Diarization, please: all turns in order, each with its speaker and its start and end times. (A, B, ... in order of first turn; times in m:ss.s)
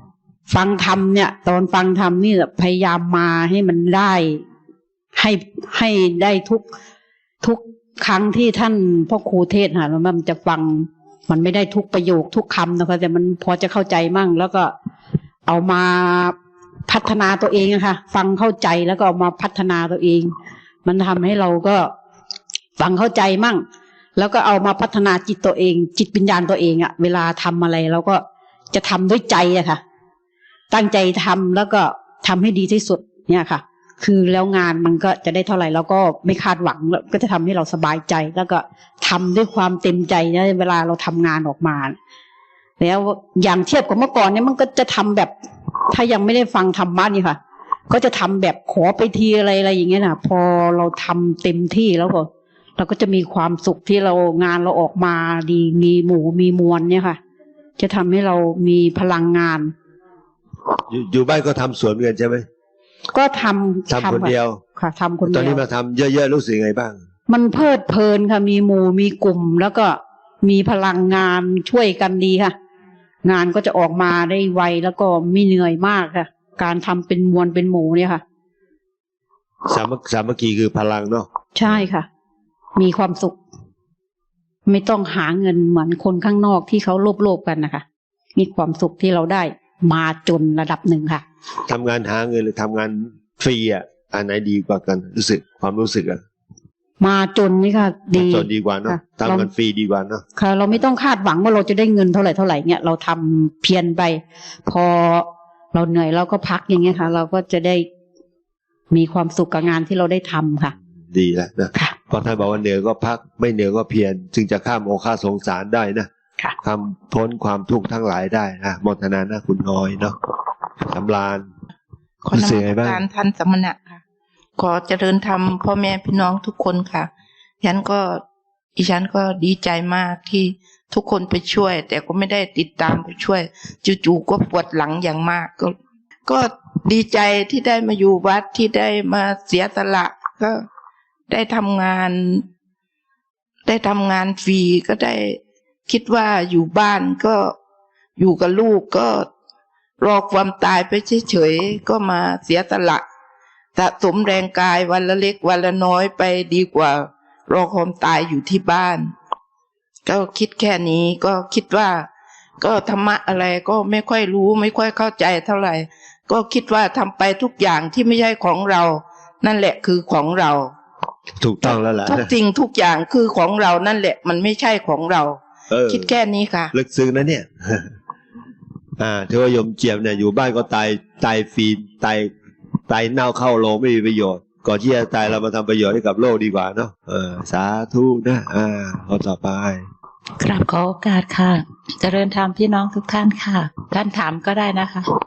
0:00.5-0:04.4 A
0:05.2-0:06.7 A
0:07.4-0:14.7 A
0:15.5-0:16.4 A
0:16.9-0:20.3 A
0:20.8-0:21.9 A
0:22.8-0:23.6 A
0:24.2-0:29.8 A
0:30.7-0:42.0 A
0:42.8-0:45.3 A
0:45.9-0:47.4 A
0:47.9-0:57.2 A
0:57.8-0:59.7 A
1:00.9-1:02.5 B
1:03.1-1:05.6 A
1:03.9-1:04.6 B
1:05.3-1:07.0 B
1:07.3-1:12.6 A
1:13.2-1:18.2 A
1:19.7-1:21.8 B
1:21.6-1:22.1 A
1:22.8-1:23.4 A
1:24.7-1:27.8 A
1:28.4-1:31.2 A
1:31.7-1:36.2 B
1:37.0-1:39.5 A
1:38.1-1:40.2 B
1:40.4-1:47.9 A
1:48.9-1:50.7 A
1:51.1-1:56.1 B
1:56.6-2:00.2 B
2:00.9-2:01.5 B
2:02.2-2:04.0 C
2:02.3-2:03.0 B
2:04.6-2:07.1 C
2:07.6-2:08.2 C
2:08.8-2:15.8 C
2:16.3-2:20.6 C
2:21.3-2:22.4 C
2:23.7-2:27.6 C
2:28.2-2:29.3 C
2:30.0-2:33.0 C
2:33.8-2:39.1 C
2:40.1-2:42.1 C
2:42.6-2:50.7 C
2:51.4-2:52.3 B
2:51.6-2:56.7 C
2:55.7-2:56.1 B
2:56.7-2:57.9 B
2:59.0-3:02.3 B
3:02.9-3:09.9 B
3:10.4-3:15.1 D